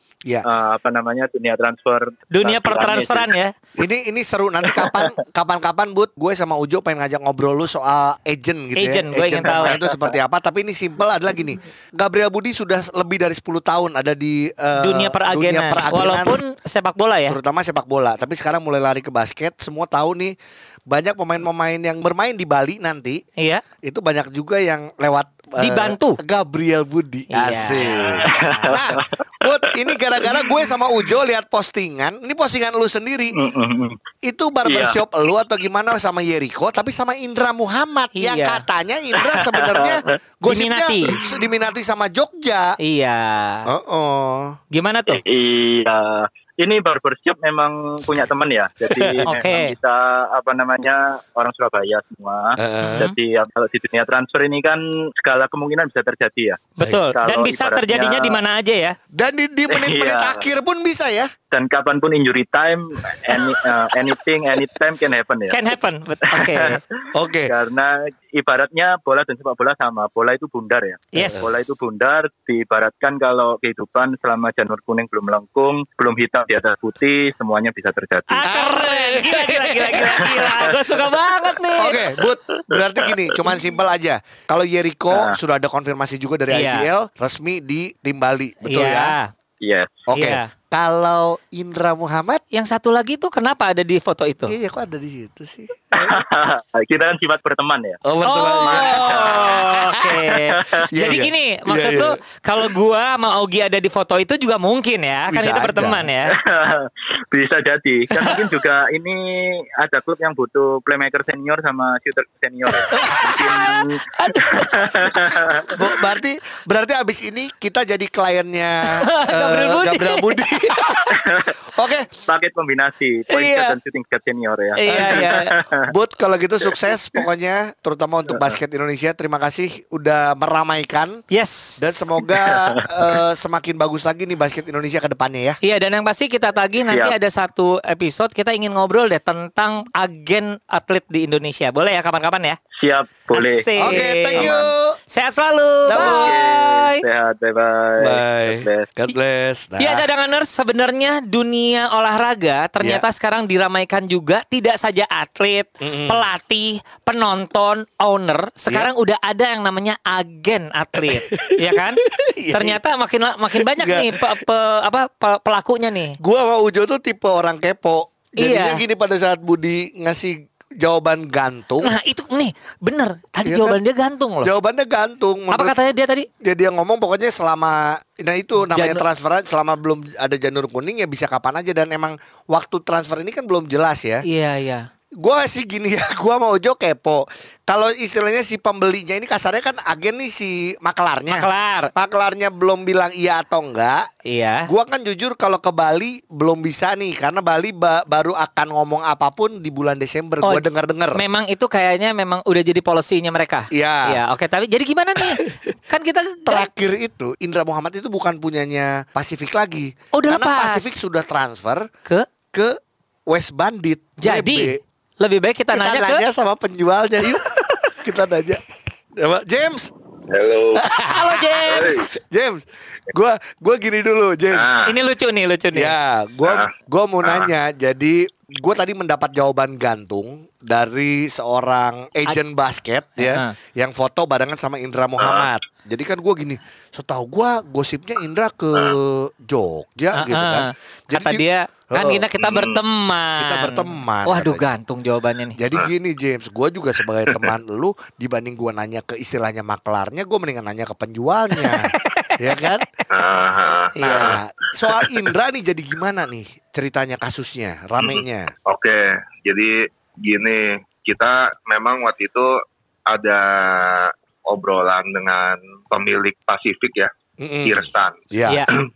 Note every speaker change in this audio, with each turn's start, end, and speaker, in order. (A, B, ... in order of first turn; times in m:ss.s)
0:00.4-0:03.3 A
0:02.3-0:03.5 B
0:03.8-0:16.4 C
0:04.7-0:05.1 A
0:08.8-0:09.8 B
0:09.4-0:10.1 A
0:14.8-0:17.4 B
0:17.3-0:20.4 C
0:20.9-0:23.2 C
0:23.4-0:23.6 B
0:23.8-0:33.4 C
0:25.6-0:26.2 B
0:27.3-0:28.2 B
0:28.2-0:29.1 A
0:29.7-0:30.7 A
0:33.4-0:34.0 A
0:34.2-0:42.8 C
0:34.6-0:35.0 A
0:38.2-0:38.6 B
0:39.2-0:40.1 A
0:40.5-0:41.2 B
0:42.8-0:43.7 B
0:43.7-0:44.6 C
0:44.7-0:45.2 B
0:45.1-0:56.6 A
0:48.9-0:49.3 C
0:49.3-0:49.7 B
0:52.6-0:53.1 C
0:52.8-0:53.1 B
0:56.8-0:59.0 B
0:57.1-0:58.4 A
0:59.1-1:01.3 C
0:59.7-1:00.4 A
1:01.5-1:05.6 A
1:05.5-1:06.8 B
1:06.3-1:06.8 A
1:07.1-1:07.5 C
1:07.5-1:18.4 A
1:11.1-1:11.5 B
1:11.2-1:11.5 C
1:18.3-1:22.0 B
1:18.4-1:20.7 C
1:20.2-1:21.6 A
1:21.8-1:29.2 C
1:22.5-1:23.6 A
1:25.1-1:25.4 A
1:26.5-1:26.9 B
1:28.6-1:29.3 B
1:29.6-1:30.0 A
1:30.1-1:32.4 C
1:30.2-1:30.5 B
1:32.5-1:34.6 B
1:34.5-1:36.2 C
1:35.9-1:38.0 A
1:38.0-1:40.1 C
1:38.2-1:46.3 B
1:38.6-1:39.7 A
1:40.3-1:40.8 A
1:40.9-1:42.2 C
1:45.3-1:46.1 C
1:46.3-1:55.8 A
1:52.9-1:53.3 C
1:53.5-1:55.2 B
1:55.7-2:01.2 C
1:59.0-2:00.6 B
2:01.1-2:01.6 A
2:01.7-2:02.1 C
2:02.2-2:05.8 A
2:03.3-2:03.8 B
2:04.8-2:05.5 B
2:04.9-2:05.3 C
2:05.9-2:11.2 C
2:11.3-2:11.8 B
2:11.8-2:15.6 C
2:12.2-2:13.2 A
2:15.6-2:22.6 B
2:16.9-2:17.2 A
2:22.8-2:24.6 A
2:23.3-2:24.6 B
2:23.8-2:25.0 C
2:25.1-2:27.0 B
2:25.9-2:26.4 C
2:25.9-2:28.9 A
2:28.0-2:30.1 C
2:29.8-2:42.0 B
2:35.8-2:36.3 C
2:41.0-2:42.8 C
2:42.5-2:46.2 B
2:43.6-2:44.4 C
2:46.2-2:51.9 C
2:48.4-2:48.8 B
2:51.8-2:54.5 B
2:53.4-2:53.8 C
2:54.4-2:55.8 C
2:55.5-2:56.3 B
2:56.4-3:04.2 C
2:58.6-2:59.0 B
3:04.2-3:04.9 B
3:05.2-3:14.1 C
3:11.3-3:11.9 B
3:14.3-3:14.7 B
3:14.7-3:21.2 C
3:20.4-3:26.7 B
3:23.7-3:24.2 C
3:25.3-3:25.6 C
3:26.5-3:31.9 C
3:30.1-3:31.0 B
3:32.5-3:34.8 C
3:34.2-3:36.2 B
3:35.7-3:37.4 C
3:38.0-3:38.6 C
3:39.2-3:39.9 C
3:40.3-3:40.9 D
3:40.8-3:44.7 C
3:41.1-3:42.1 B
3:41.6-3:42.1 D
3:44.5-3:44.9 D
3:44.9-3:45.9 B
3:45.7-4:02.2 C
3:46.4-3:46.7 D
3:47.2-3:47.5 D
3:53.2-3:53.5 B
3:55.2-3:55.5 D
4:00.1-4:05.6 B
4:02.4-4:02.8 D
4:03.4-4:04.6 C
4:05.6-4:12.8 C
4:11.6-4:12.6 B
4:13.1-4:14.4 D
4:14.0-4:14.4 B
4:14.0-4:18.5 C
4:18.0-4:22.6 D
4:23.1-4:27.1 D
4:27.4-4:28.6 C
4:27.6-4:28.2 D